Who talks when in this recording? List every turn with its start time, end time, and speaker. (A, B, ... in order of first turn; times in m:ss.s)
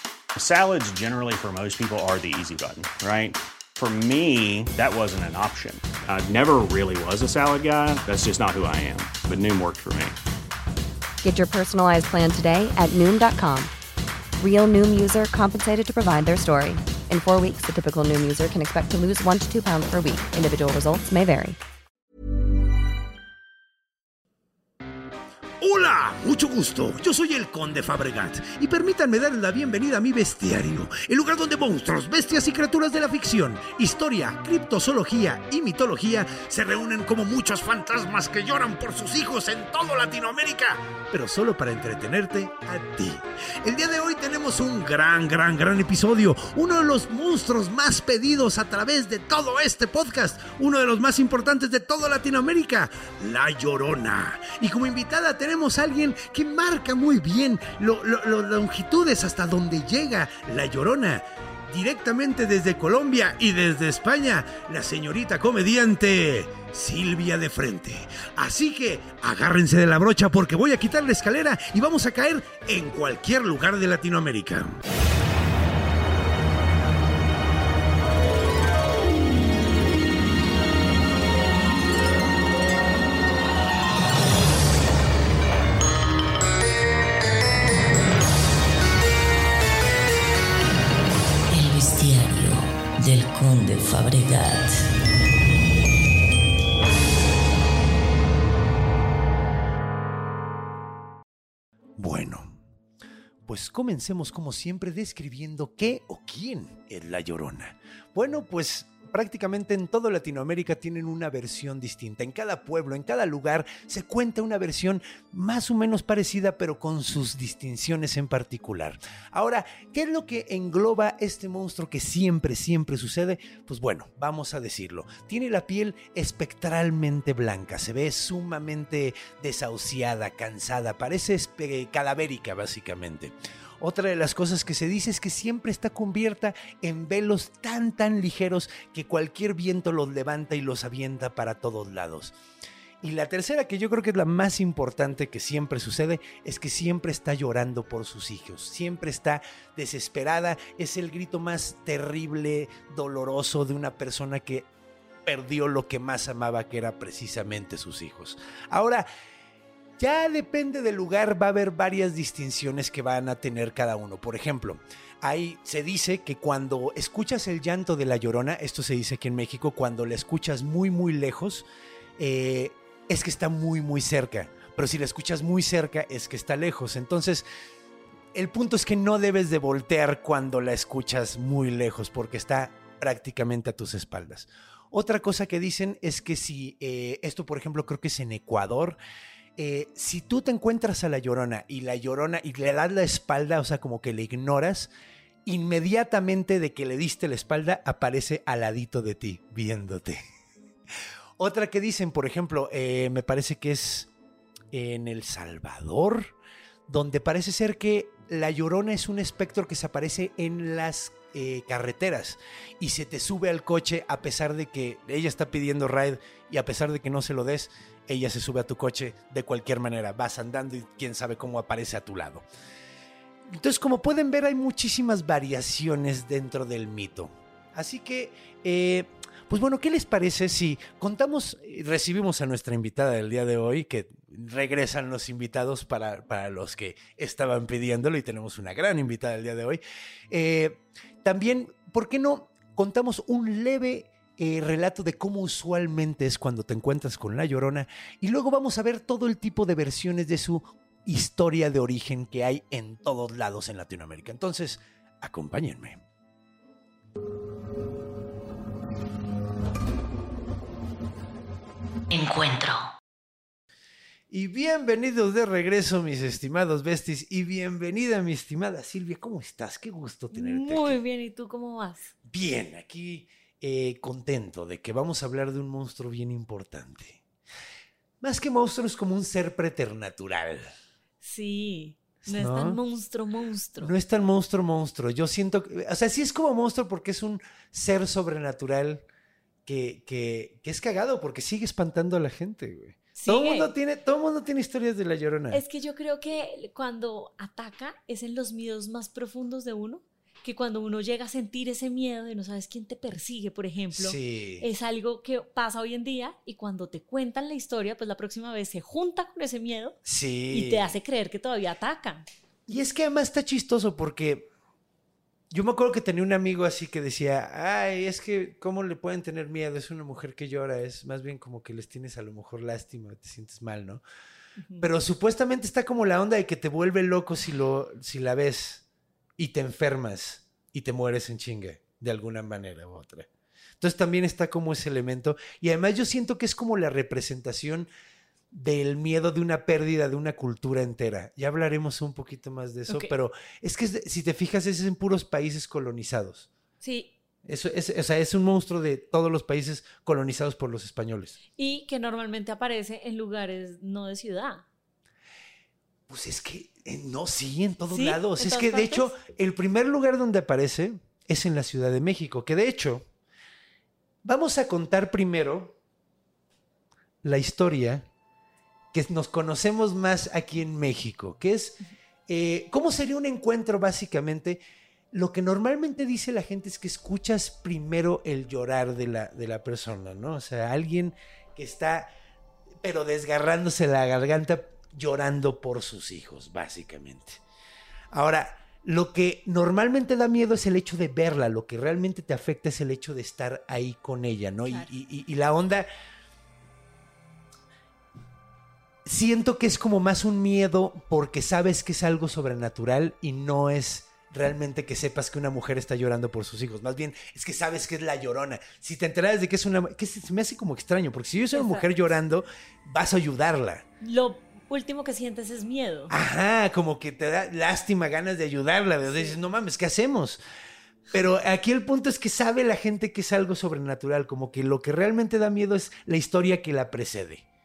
0:00.4-0:10.2 A
0:11.2-0:13.7 B
0:14.4-0:21.6 B
0:25.6-1:14.8 C
1:31.5-1:34.8 D
1:42.0-1:42.6 C
1:43.4-2:22.3 C
2:23.0-2:34.7 C
2:35.2-2:39.1 C
2:40.0-2:51.6 C
2:52.2-2:57.4 C
2:58.3-3:09.0 C
3:09.6-3:14.9 C
3:15.4-3:20.2 C
3:21.4-3:24.1 C
3:24.7-3:26.3 C
3:26.9-3:42.4 C
3:43.5-4:16.0 C
4:22.1-4:22.9 D
4:24.3-4:31.0 C
4:30.3-4:32.1 E
4:32.2-4:37.2 C
4:38.2-4:40.7 C
4:41.2-4:43.9 E
4:42.2-4:42.8 C
4:43.8-4:49.0 C
4:49.6-4:55.6 C
4:53.1-4:53.7 E
4:55.5-5:10.0 E
5:03.9-5:04.7 C
5:10.0-5:10.9 C
5:10.5-5:12.2 E
5:12.7-5:14.5 C
5:15.5-5:24.0 C
5:24.6-5:24.9 E
5:24.8-5:28.8 C
5:29.4-5:33.3 C
5:33.8-5:37.9 C
5:38.5-5:46.5 C
5:46.8-5:47.1 E
5:47.4-5:51.4 C
5:51.6-5:54.6 E
5:56.1-6:03.1 C
5:57.9-5:59.1 E
6:04.2-6:05.7 C
6:07.2-6:08.1 C
6:08.9-6:22.1 C
6:22.8-6:27.4 C
6:28.1-6:35.9 C
6:39.0-6:53.8 C
6:51.5-6:51.9 E
6:54.0-6:56.1 E
6:56.1-7:00.4 C
6:59.0-6:59.4 E
7:01.1-7:07.4 C